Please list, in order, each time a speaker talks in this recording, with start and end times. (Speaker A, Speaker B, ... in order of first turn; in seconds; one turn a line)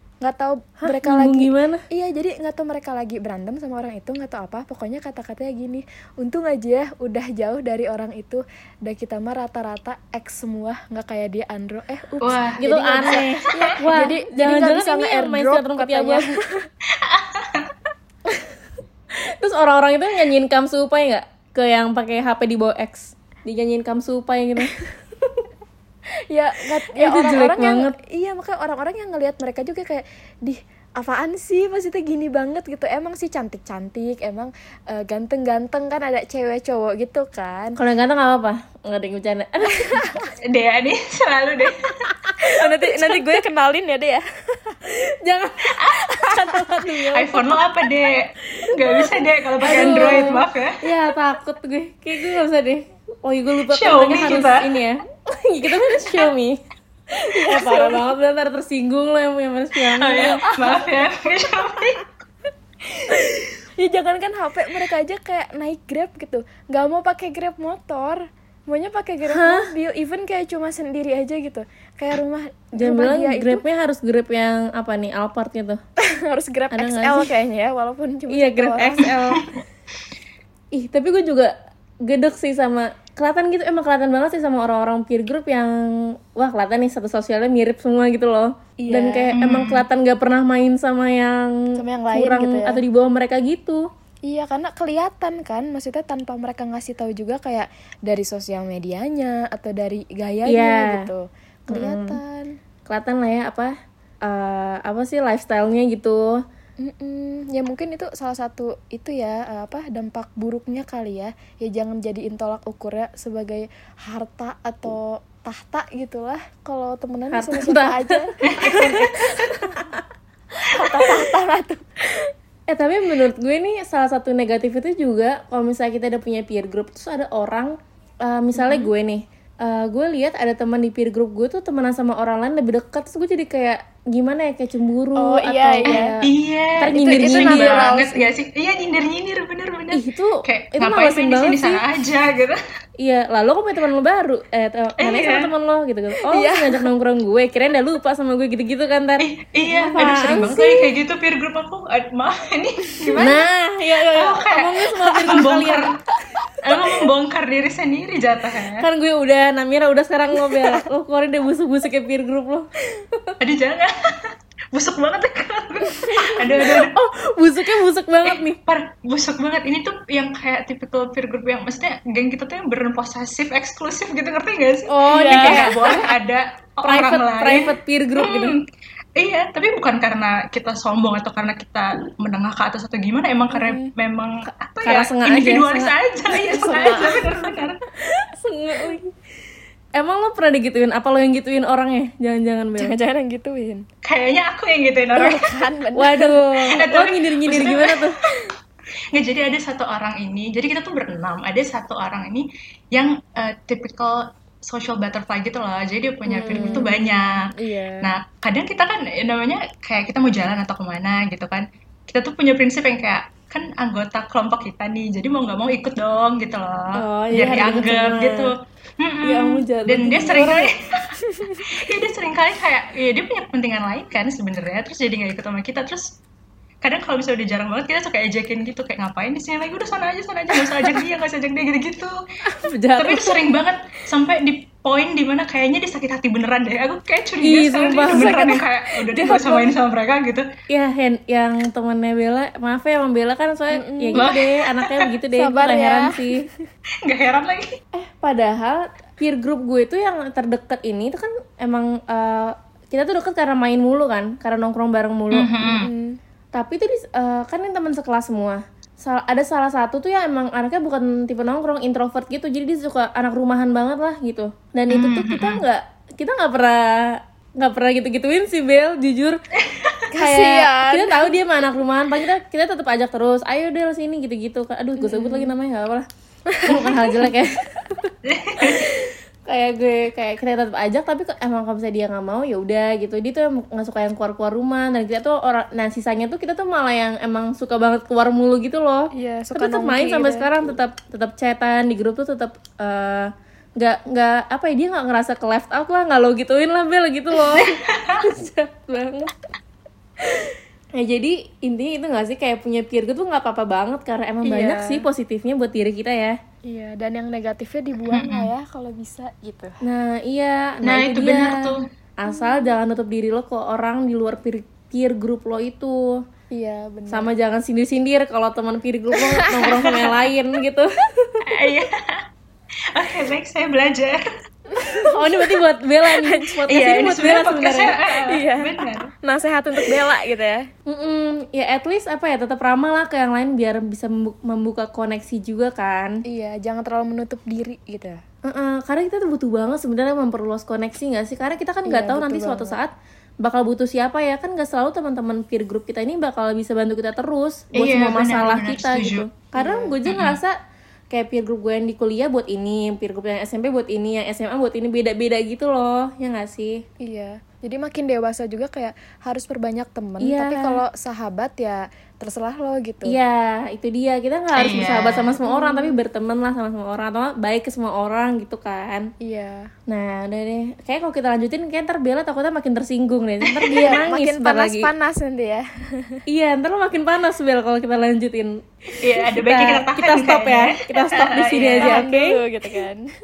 Speaker A: 0.2-16.7
Speaker B: 0.8-1.8
Speaker C: 12.2-13.4
Speaker B: 12.6-16.4
Speaker C: 16.9-17.7
Speaker B: 19.1-25.5
Speaker A: 26.3-37.8
Speaker B: 26.9-27.9
Speaker B: 37.8-40.1
Speaker A: 39.8-40.3
Speaker C: 40.5-42.1
Speaker A: 42.4-44.8
Speaker B: 42.9-43.4
Speaker B: 44.9-47.6
Speaker A: 46.1-46.8
Speaker C: 47.1-50.8
Speaker B: 49.0-56.6
Speaker A: 49.7-50.0
Speaker C: 53.7-54.7
Speaker B: 57.2-60.4
Speaker A: 57.3-58.1
Speaker C: 60.0-62.1
Speaker A: 60.4-60.8
Speaker A: 63.1-73.6
Speaker B: 69.3-69.7
Speaker B: 72.8-75.8
Speaker A: 76.0-79.1
Speaker B: 76.7-77.3
Speaker B: 78.3-79.4
Speaker C: 79.0-79.5
Speaker B: 80.7-81.5
Speaker B: 82.0-91.6
Speaker A: 88.8-89.3
Speaker C: 89.3-89.8
Speaker A: 91.8-92.8
Speaker B: 92.1-93.9
Speaker A: 94.3-102.5
Speaker B: 100.5-101.1
Speaker B: 101.7-102.2
Speaker B: 102.9-103.7
Speaker B: 104.2-106.4
Speaker A: 106.8-119.8
Speaker B: 117.3-120.0
Speaker C: 118.5-118.8
Speaker A: 120.6-122.2
Speaker B: 122.7-136.2
Speaker A: 128.6-128.9
Speaker A: 135.2-136.2
Speaker C: 135.9-142.6
Speaker B: 136.8-138.0
Speaker A: 136.9-138.3
Speaker B: 139.9-141.8
Speaker B: 143.0-149.3
Speaker C: 145.0-145.5
Speaker A: 146.2-146.9
Speaker C: 149.2-153.4
Speaker B: 149.8-150.9
Speaker B: 153.2-155.9
Speaker C: 154.1-156.0
Speaker C: 156.6-158.9
Speaker B: 158.8-163.3
Speaker C: 163.4-167.0
Speaker A: 166.0-166.3
Speaker B: 166.1-168.6
Speaker C: 168.2-178.6
Speaker B: 175.0-176.1
Speaker A: 175.1-176.1
Speaker B: 176.8-178.6
Speaker C: 179.2-187.8
Speaker A: 183.5-183.9
Speaker B: 184.8-185.9
Speaker A: 186.3-187.2
Speaker B: 188.4-189.1
Speaker B: 190.0-192.9
Speaker A: 192.8-193.8
Speaker C: 194.0-195.5
Speaker A: 195.2-196.4
Speaker B: 195.9-198.2
Speaker C: 196.7-198.3
Speaker C: 199.1-226.1
Speaker A: 206.3-208.1
Speaker B: 206.5-206.9
Speaker B: 216.9-218.5
Speaker B: 219.2-220.7
Speaker C: 226.8-232.2
Speaker B: 232.6-233.3
Speaker C: 233.0-240.5
Speaker B: 237.4-238.5
Speaker A: 238.1-239.7
Speaker B: 240.7-246.4
Speaker A: 243.7-244.3
Speaker C: 244.2-245.1
Speaker A: 245.3-246.5
Speaker C: 247.1-247.8
Speaker B: 247.9-255.5
Speaker C: 255.3-255.9
Speaker A: 255.7-256.2
Speaker B: 256.5-269.4
Speaker C: 264.9-265.6
Speaker C: 269.6-270.0
Speaker A: 270.1-271.3
Speaker B: 270.2-276.1
Speaker A: 275.0-275.5
Speaker A: 276.5-277.1
Speaker B: 276.7-278.1
Speaker C: 278.2-278.9
Speaker B: 278.7-299.3
Speaker A: 289.1-290.5
Speaker C: 297.6-298.2
Speaker B: 301.0-306.4
Speaker A: 304.4-305.1
Speaker A: 306.7-309.8
Speaker C: 308.1-308.5
Speaker B: 309.8-311.7
Speaker C: 310.9-311.8
Speaker B: 312.2-316.2
Speaker A: 312.3-312.6
Speaker A: 316.5-317.3
Speaker B: 317.1-321.4
Speaker A: 319.2-319.7
Speaker C: 319.7-320.1
Speaker C: 321.5-322.2
Speaker C: 322.9-324.3
Speaker A: 324.7-325.2
Speaker B: 325.1-328.0
Speaker A: 326.2-326.6
Speaker C: 326.7-329.1
Speaker A: 328.3-330.6
Speaker B: 330.9-336.2
Speaker A: 336.3-338.2
Speaker B: 338.4-350.6
Speaker A: 341.9-342.8
Speaker C: 347.8-349.3
Speaker A: 349.6-350.0
Speaker C: 350.1-350.4
Speaker B: 351.1-356.8
Speaker A: 357.0-363.2
Speaker B: 360.2-360.8
Speaker B: 363.1-369.1
Speaker C: 364.5-365.4
Speaker A: 365.4-366.0
Speaker A: 369.2-369.7
Speaker B: 369.9-374.9
Speaker C: 373.5-374.0
Speaker A: 373.7-376.2
Speaker B: 376.3-378.6
Speaker C: 379.0-382.0
Speaker B: 379.1-382.4
Speaker A: 381.8-383.1